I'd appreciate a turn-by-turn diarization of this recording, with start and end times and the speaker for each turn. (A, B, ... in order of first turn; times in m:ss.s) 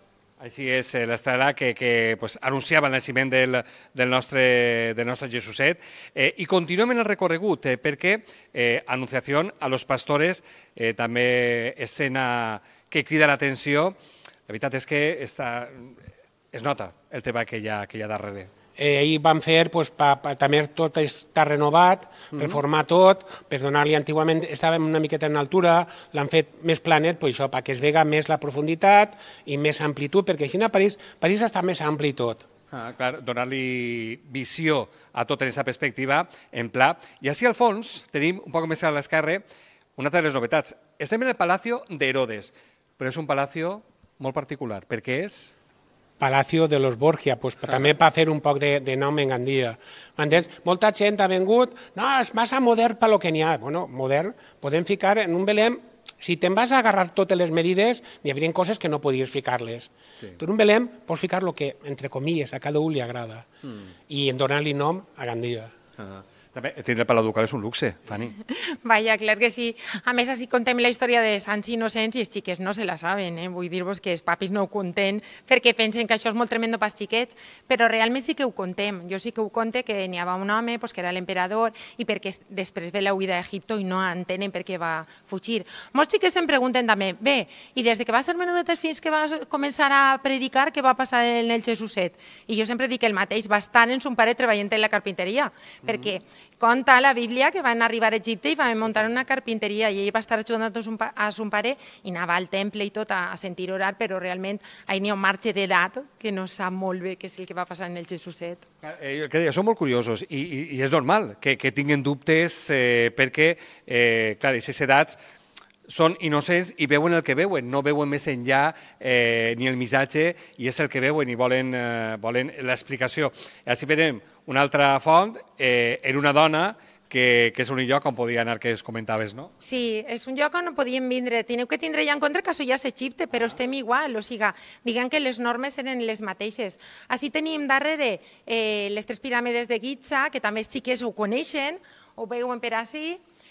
0:00.4-0:14.0 A
0:14.5-0:15.9 A
0:16.5-0:18.5 A
0:18.8-0:32.4 B
0:32.7-0:39.4 A
0:40.0-0:45.5 A
0:46.2-1:03.5 B
1:04.1-1:05.7 B
1:06.0-1:08.4 A
1:08.6-1:48.6 C
1:48.8-1:55.2 A
1:55.9-2:09.5 A
2:09.6-2:23.2 C